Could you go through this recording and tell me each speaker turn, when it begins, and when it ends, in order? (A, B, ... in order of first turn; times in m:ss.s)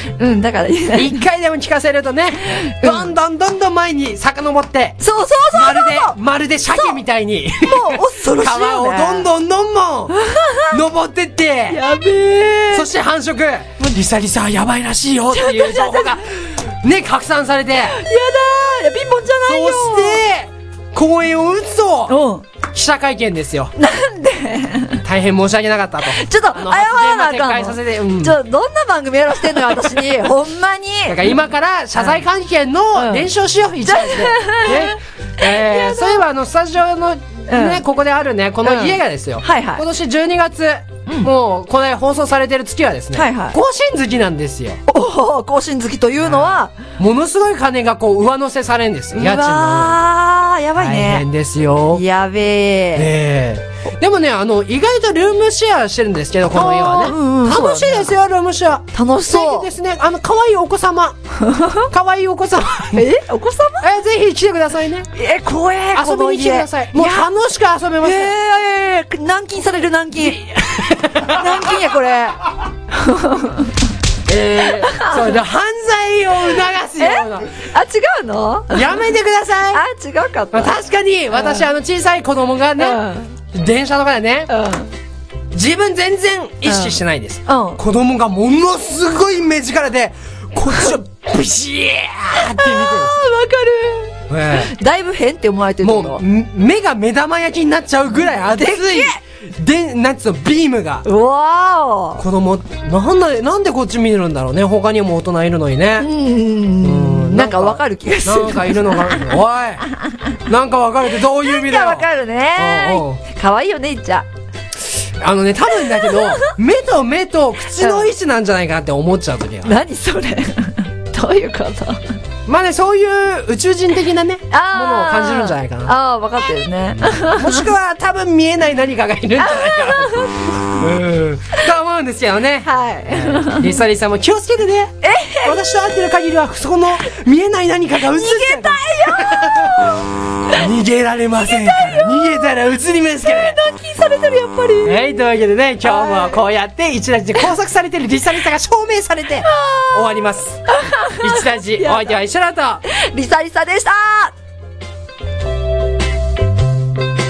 0:00.2-0:01.2 A
0:00.9-0:05.0 B
0:02.5-0:03.1 A
0:05.0-0:06.2 A
0:05.5-0:10.2 B
0:07.6-0:09.3 A
0:10.3-0:10.7 A
0:10.7-0:11.8 B
0:11.7-0:12.9 A
0:12.7-0:18.0 B
0:15.3-0:16.2 A
0:17.9-0:20.2 A
0:19.5-0:23.7 B
0:22.1-0:22.5 A
0:23.8-0:25.0 A
0:25.0-0:28.4 B
0:26.1-0:31.4 A
0:31.1-0:44.8 B
0:33.0-0:33.3 A
0:33.9-0:36.2 A
0:37.5-0:37.8 A
0:38.6-0:39.8 A
0:43.1-0:43.6 A
0:44.9-0:46.8 A
0:46.2-0:50.0 B
0:49.2-0:51.3 A
0:50.8-0:52.0 B
0:51.9-0:53.1 A
0:53.0-1:01.2 B
0:56.5-0:58.1 A
0:58.9-0:59.7 A
1:01.5-1:01.8 A
1:01.9-1:03.1 B
1:02.9-1:03.9 A
1:03.8-1:05.1 B
1:05.2-1:07.3 A
1:06.0-1:08.3 B
1:08.0-1:10.4 A
1:10.2-1:11.8 B
1:11.2-1:12.4 A
1:12.9-1:13.7 A
1:14.3-1:17.5 B
1:14.8-1:15.4 A
1:17.0-1:18.8 A
1:18.7-1:19.8 B
1:19.7-1:20.7 A
1:20.5-1:24.5 B
1:21.3-1:21.6 A
1:22.8-1:23.3 A
1:24.5-1:24.9 A
1:25.5-1:33.2 B
1:26.7-1:27.8 A
1:32.4-1:36.2 A
1:34.3-1:34.7 B
1:35.8-1:41.0 B
1:38.2-1:39.1 A
1:41.0-1:42.2 A
1:42.2-1:46.1 B
1:46.0-1:49.3 A
1:46.8-1:49.8 B
1:50.5-1:53.2 B
1:51.4-1:54.3 A
1:55.2-1:59.8 B
1:55.9-1:56.4 A
1:57.8-1:58.1 A
1:59.6-2:02.0 A
2:02.5-2:05.9 B
2:04.5-2:07.6 A
2:07.0-2:19.7 B
2:09.4-2:10.6 A
2:12.6-2:13.8 A
2:15.0-2:15.6 A
2:18.1-2:20.5 A
2:20.5-2:23.6 B
2:21.5-2:22.4 A
2:23.2-2:25.0 A
2:24.8-2:30.6 B
2:25.8-2:26.4 A
2:29.6-2:30.0 A
2:30.8-2:32.2 A
2:31.2-2:32.8 B
2:32.9-2:34.3 A